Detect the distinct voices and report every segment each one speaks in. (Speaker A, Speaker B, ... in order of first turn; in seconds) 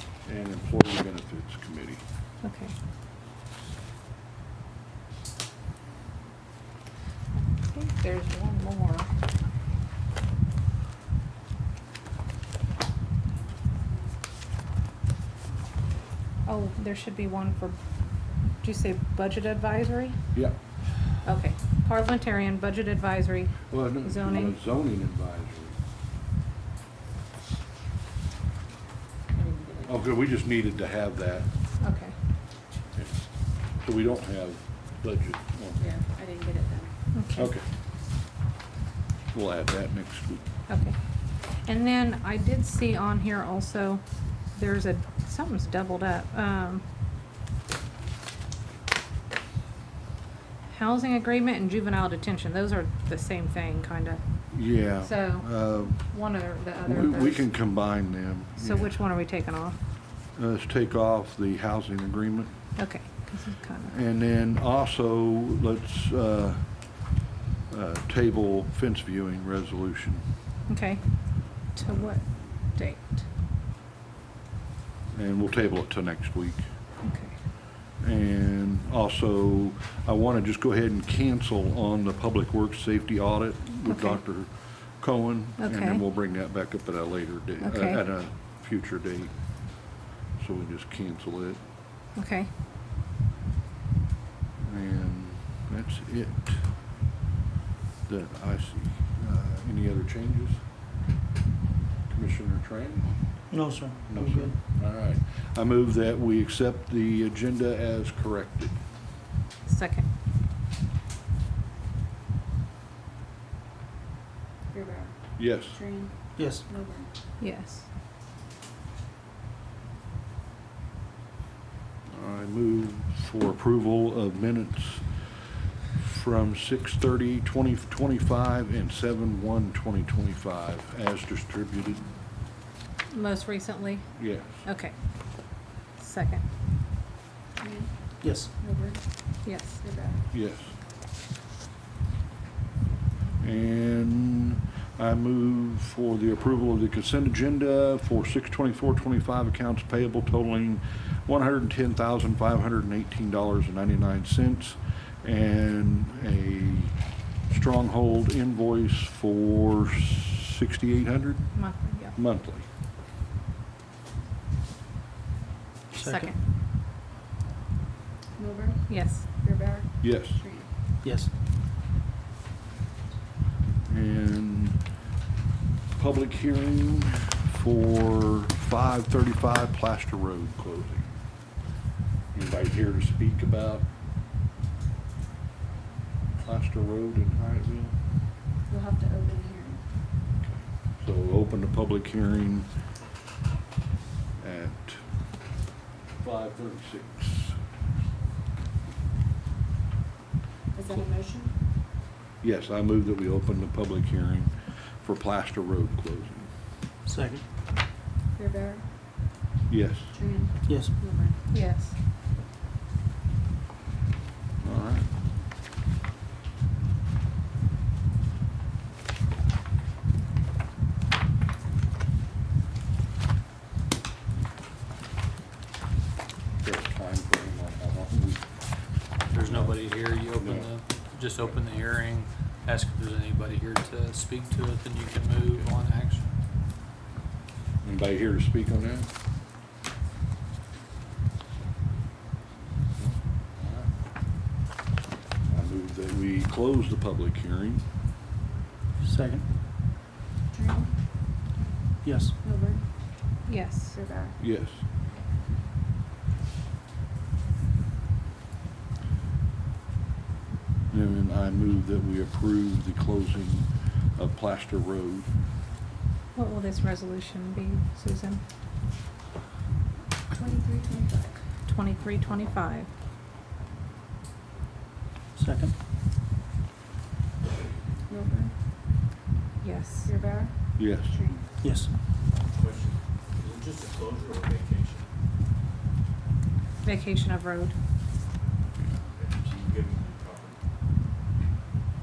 Speaker A: 0.2-2.0, 23.7-25.8, 29.8-31.5, 33.8-35.8, 37.4-37.6, 39.3-40.5, 54.5-56.0, 56.8-58.9, 60.4-62.5, 63.9-66.7, 67.7-70.2, 75.1-76.6, 78.0-89.3, 90.4-91.6, 94.6-96.6, 98.1-100.6, 102.1-103.1, 104.1-108.8, 115.4-115.8, 122.1-125.0, 126.0-132.1, 134.2-134.6, 140.3-140.7, 143.4-156.9, 157.5-162.7, 170.0-170.4, 173.8-174.8, 176.0-181.1, 182.3-183.9, 186.4-187.9, 190.4-192.7, 194.4-195.0, 196.2-197.6, 202.4-206.5, 209.7-210.1, 214.6-215.1, 226.6-228.5, 229.4-229.8, 230.3-230.7, 237.8-239.1, 243.0-243.9, 245.5-247.8, 254.4-254.8, 260.9-265.3, 280.8-281.1
Speaker B: 2.4-2.7, 7.4-9.1, 16.4-17.8, 18.6-20.2, 21.2-24.6, 31.8-32.1, 37.1-37.5, 40.7-41.0, 41.6-44.0, 44.5-46.8, 50.7-54.2, 55.0-57.5, 58.6-59.8, 62.8-63.9, 70.7-71.0, 71.7-73.2, 77.0-77.3, 83.9-84.2, 85.6-86.0, 87.6-88.0, 92.2-92.5, 109.7-110.0, 117.4-117.9, 133.1-134.9, 136.0-136.4, 139.4-139.8, 161.5-162.1, 165.9-166.3, 168.9-169.3, 211.5-211.9, 253.5-254.0, 266.3-268.4, 271.7-272.9, 279.6-280.1, 286.8-287.7
Speaker C: 29.3-29.9, 35.8-36.9, 114.7-117.1, 137.6-139.0, 139.8-140.2, 168.4-170.7, 188.7-189.8, 200.7-201.5, 208.3-208.8, 210.1-211.3, 250.5-250.9, 252.4-252.8, 253.9-254.3, 270.3-271.4, 278.1-278.5, 280.1-281.5
Speaker D: 103.5-104.5, 116.4-116.6, 138.2-138.5, 166.0-166.3, 171.0-171.3, 207.1-207.4, 210.7-210.9, 249.0-249.4, 252.0-252.3, 275.4-275.7, 281.6-281.9
Speaker E: 229.3-236.2
Speaker F: 282.5-285.1, 289.2-290.6